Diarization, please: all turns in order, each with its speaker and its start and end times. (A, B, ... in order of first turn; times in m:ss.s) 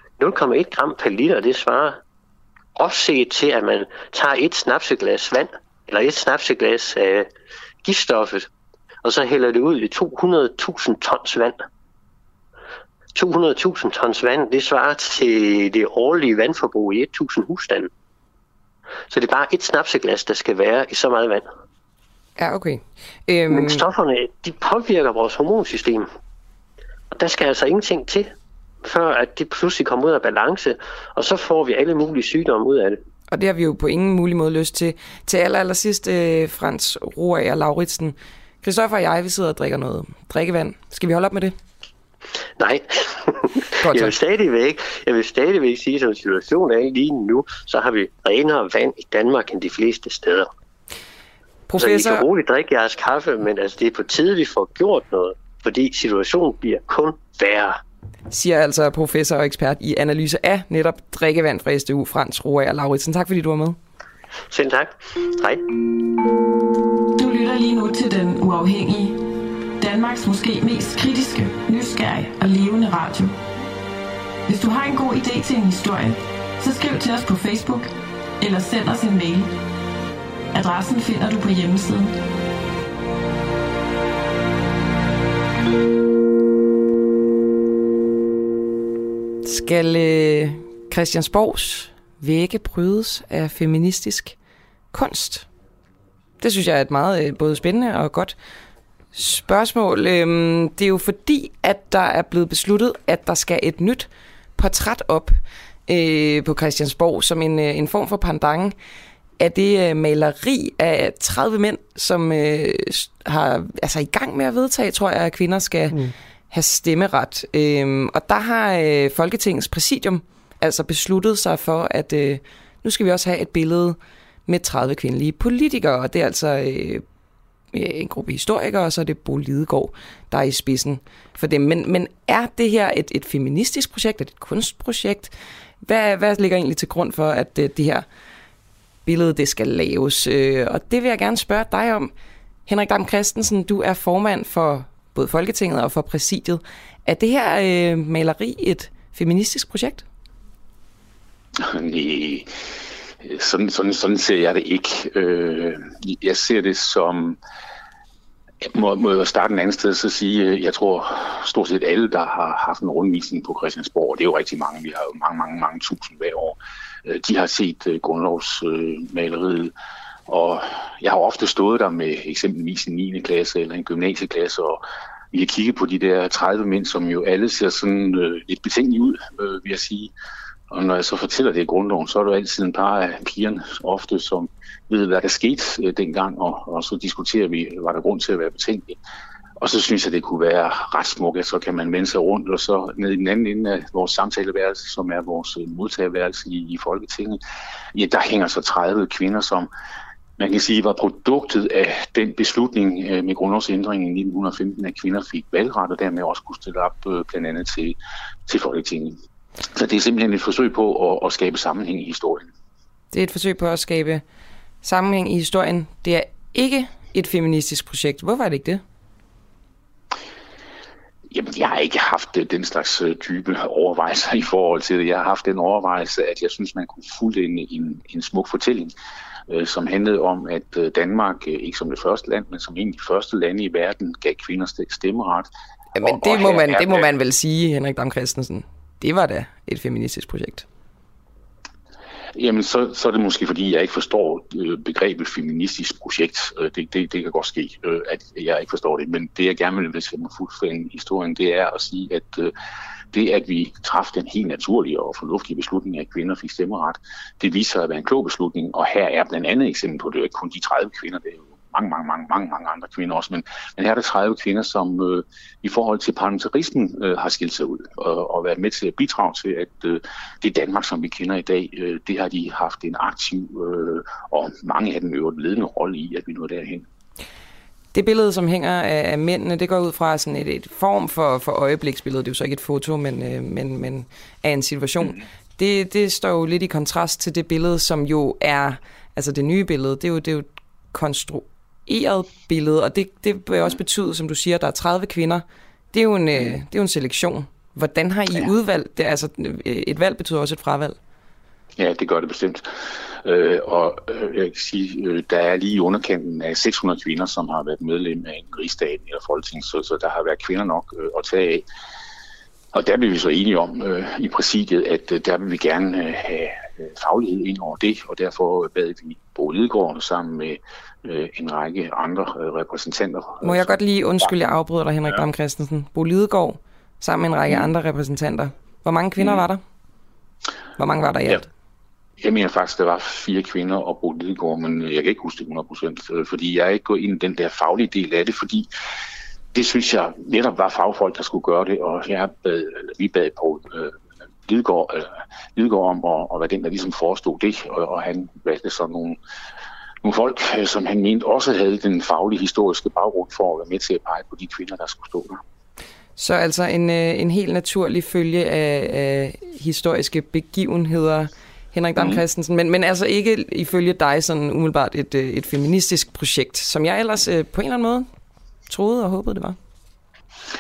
0:00.2-0:02.0 A
0:02.8-0:07.3 A
0:07.8-0:08.5 A
0:09.0-0:11.6 A
0:13.2-0:17.9 A
0:19.1-0:21.5 A
0:22.4-0:23.9 B
0:23.5-0:26.1 A
0:27.1-0:28.3 A
0:28.8-0:33.0 A
0:33.3-0:41.5 B
0:42.6-0:50.5 A
0:43.8-0:44.1 B
0:51.7-0:52.3 B
0:51.8-0:57.8 A
0:58.3-1:03.8 B
1:04.5-1:05.6 A
1:07.2-1:09.3 C
1:09.8-1:13.4 C
1:14.5-1:19.5 C
1:20.5-1:22.1 C
1:29.4-1:34.4 B
1:34.9-1:35.5 B
1:36.4-1:38.4 B
1:39.1-1:48.8 B
1:49.4-2:07.0 B
2:07.7-2:18.1 B
2:19.1-2:22.1 B
2:22.7-2:30.1 B
2:31.6-2:32.5 D
2:33.2-2:37.4 D
2:38.6-2:49.7 D
2:50.3-3:00.1 D
3:00.7-3:09.0 D
3:09.6-3:17.4 D
3:17.9-3:19.7 D
3:20.4-3:29.2 D
3:29.7-3:32.5 D
3:33.1-3:34.2 B
3:34.8-3:38.8 B
3:41.3-3:48.9 D
3:49.5-3:55.5 D
3:56.0-4:00.7 B
3:56.0-3:57.1 D
4:02.4-4:12.5 D
4:13.1-4:36.9 D
4:37.9-5:01.0 B
5:01.8-5:02.7 D
5:03.2-5:11.6 D
5:12.7-5:23.8 D
5:23.4-5:29.6 B
5:30.8-5:31.5 B
5:32.2-5:38.7 D
5:39.5-5:49.2 D
5:50.0-5:55.4 D
5:56.2-6:08.1 B
6:02.0-6:02.2 D
6:08.7-6:09.6 B